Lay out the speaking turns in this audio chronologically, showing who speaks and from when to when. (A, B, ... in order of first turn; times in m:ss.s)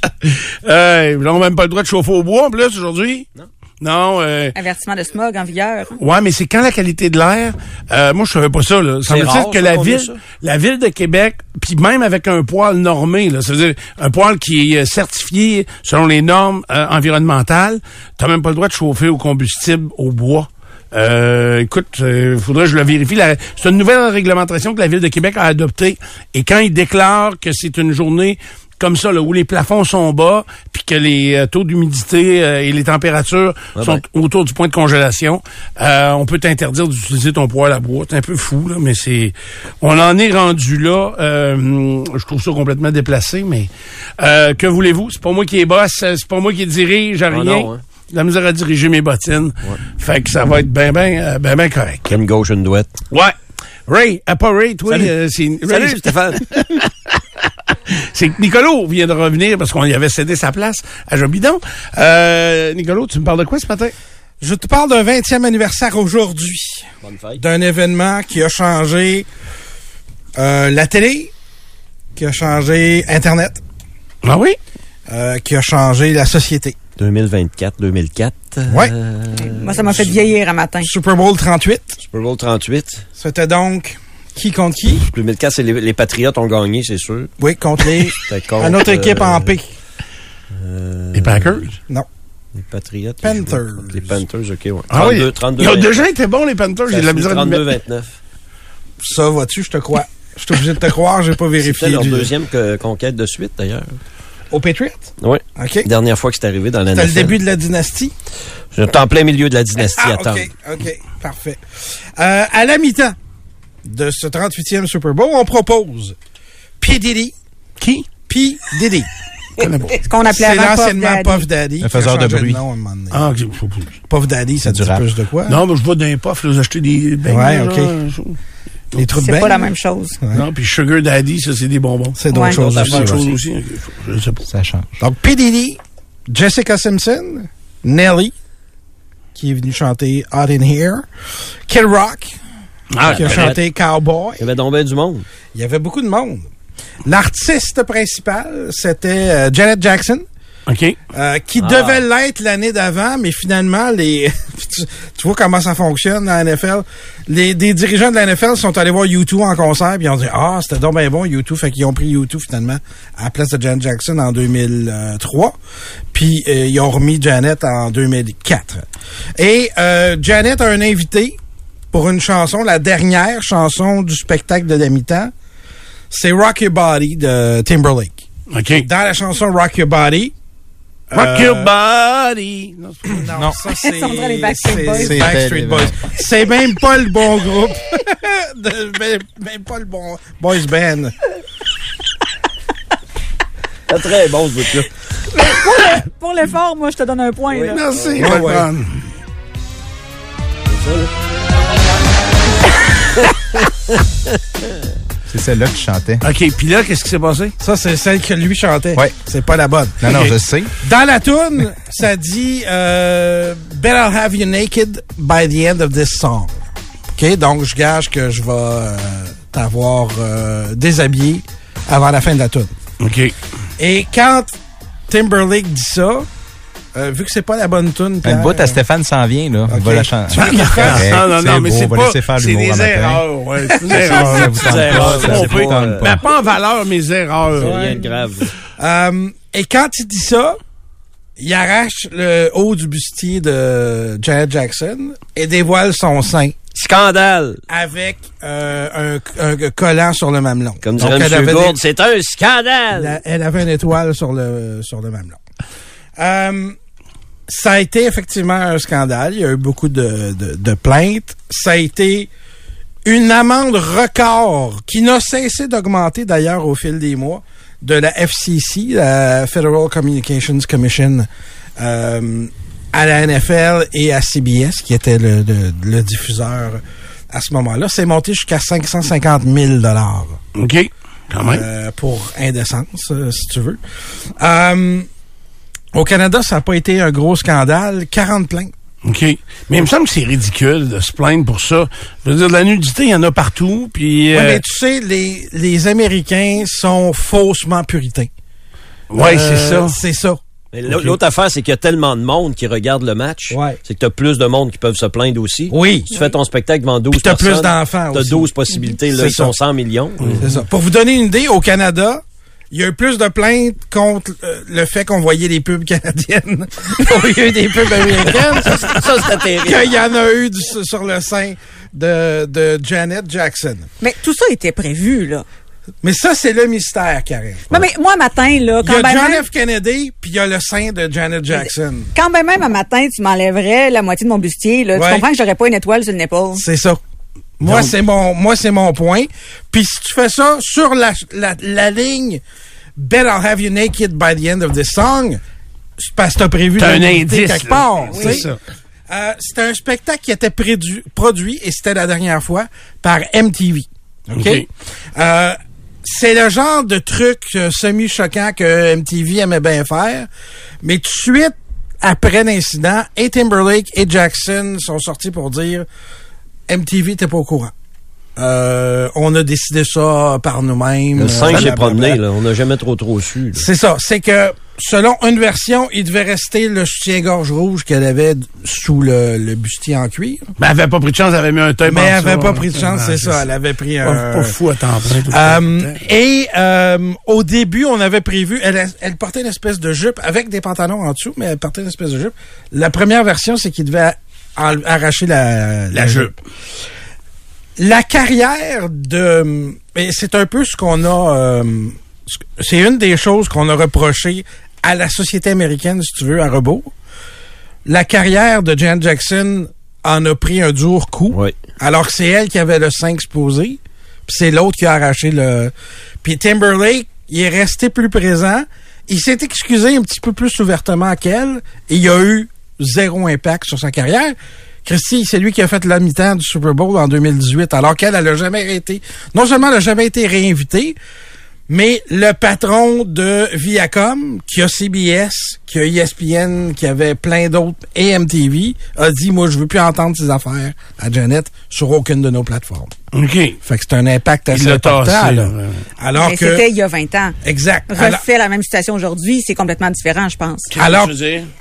0:00.2-0:03.3 A
0:03.8-0:04.6 A
0:04.5-0:06.0 B
0:06.0-0:52.1 A
0:09.0-0:10.2 C
0:33.8-0:34.0 C
0:47.3-0:47.8 C
0:52.1-0:53.0 C
0:53.9-1:03.9 A
0:54.9-0:55.1 C
0:55.7-0:56.6 C
1:04.4-1:09.2 D
1:07.0-1:07.4 C
1:10.4-1:11.3 D
1:12.2-1:13.6 D
1:14.2-1:14.6 A
1:15.1-1:16.8 D
1:17.0-1:20.0 C
1:18.7-1:18.9 D
1:19.4-1:20.9 B
1:20.8-1:22.0 D
1:22.0-1:23.0 C
1:23.2-1:25.1 D
1:25.1-1:27.3 C
1:27.4-1:29.7 D
1:28.0-1:29.5 C
1:30.5-1:31.7 C
1:31.1-1:31.8 A
1:32.6-1:36.0 C
1:33.2-1:34.2 D
1:34.9-1:37.7 A
1:36.9-1:38.1 C
1:39.0-1:42.3 D
1:41.6-1:44.0 C
1:44.5-1:45.9 D
1:45.2-1:47.4 C
1:46.9-1:48.1 D
1:48.7-1:50.5 C
1:49.8-1:51.6 D
1:52.2-1:53.2 D
1:53.8-1:56.2 D
1:56.8-1:57.3 D
1:57.8-1:58.0 A
1:58.3-1:59.1 D
1:59.6-2:00.0 A
1:59.9-2:01.4 B
2:00.2-2:03.2 D
2:01.8-2:02.6 E
2:03.1-2:03.9 A
2:04.1-2:05.6 D
2:04.6-2:05.0 E
2:05.5-2:08.4 A
2:07.2-2:07.9 D
2:08.9-2:10.4 D
2:09.1-2:10.2 B
2:10.3-2:14.4 A
2:12.2-2:13.2 D
2:12.3-2:12.6 B
2:12.4-2:13.3 C
2:14.4-2:14.9 E
2:15.0-2:18.3 D
2:19.3-2:21.1 D
2:21.7-2:22.4 D
2:22.9-2:23.5 A
2:23.0-2:23.6 C
2:23.0-2:24.5 D
2:24.4-2:25.3 C
2:25.5-2:26.5 D
2:27.0-2:30.2 D
2:30.7-2:31.0 A
2:31.1-2:45.6 D
2:31.6-2:32.0 C
2:46.1-2:51.4 D
2:51.9-2:55.3 D
2:56.1-2:58.2 D
2:58.5-2:58.9 A
2:58.7-3:00.3 D
3:01.1-3:01.7 D
3:01.1-3:03.3 A
3:03.1-3:11.2 D
3:03.3-3:03.6 E
3:03.8-3:05.4 B
3:04.9-3:06.0 E
3:13.9-3:14.9 C
3:15.3-3:17.8 B
3:17.5-3:18.4 C
3:17.7-3:19.0 A
3:18.2-3:18.7 D
3:20.7-3:21.1 C
3:23.1-3:23.7 C
3:25.3-3:26.2 E
3:26.2-3:27.5 A
3:27.6-3:30.2 D
3:30.0-3:30.7 E
3:30.8-3:36.6 D
3:37.1-3:42.7 D
3:43.0-3:43.4 A
3:43.8-3:44.6 D
3:45.1-3:46.3 D
3:46.9-3:48.8 D
3:48.2-3:53.2 E
3:49.7-3:51.1 D
3:50.3-3:57.9 A
3:53.8-3:54.5 D
3:53.8-3:56.2 E
3:54.4-3:56.1 C
3:57.6-3:58.5 C
3:57.6-3:58.1 D
3:58.8-4:00.6 D
4:01.4-4:06.7 D
4:06.7-4:07.6 C
4:07.7-4:11.8 D
4:10.8-4:13.2 C
4:12.9-4:15.4 D
4:16.2-4:16.8 D
4:17.5-4:22.3 D
4:23.0-4:40.4 D
4:40.6-4:41.6 A
4:41.4-4:43.8 D
4:44.4-4:45.1 D
4:45.9-4:48.7 D
4:49.0-4:54.6 A
4:54.3-4:58.3 D
4:59.1-5:00.0 A
4:59.2-5:01.0 D
5:00.7-5:10.5 C
5:03.5-5:03.8 D
5:05.7-5:06.3 D
5:07.1-5:08.5 D
5:09.1-5:09.5 D
5:10.4-5:23.9 D
5:18.2-5:19.9 C
5:24.0-5:25.4 B
5:26.0-5:27.8 D
5:27.7-5:29.4 B
5:28.8-5:32.1 D
5:31.5-5:36.6 B
5:34.9-5:35.2 D
5:36.6-5:37.0 D
5:37.6-5:42.4 D
5:37.6-5:37.9 A
5:43.0-5:45.4 D
5:46.0-5:48.5 D
5:46.8-5:48.6 A
5:48.1-5:48.5 B
5:49.1-6:00.3 D
5:54.4-5:54.6 A
6:00.8-6:05.8 D
6:06.7-6:07.7 D
6:08.4-6:12.2 D
6:11.2-6:13.6 C
6:13.5-6:20.5 D
6:20.6-6:23.5 A
6:21.8-6:24.5 D
6:24.0-6:26.0 A
6:25.3-6:36.4 D
6:35.9-6:36.3 A
6:37.8-6:46.9 D
6:47.8-7:11.0 D
6:51.3-6:51.6 C
7:11.7-7:22.9 D
7:23.1-7:23.6 A
7:23.6-7:26.7 D
7:24.5-7:25.8 A
7:26.2-7:27.4 B
7:27.4-7:28.2 D
7:27.9-7:30.7 B
7:30.7-7:31.5 A
7:30.8-7:31.1 D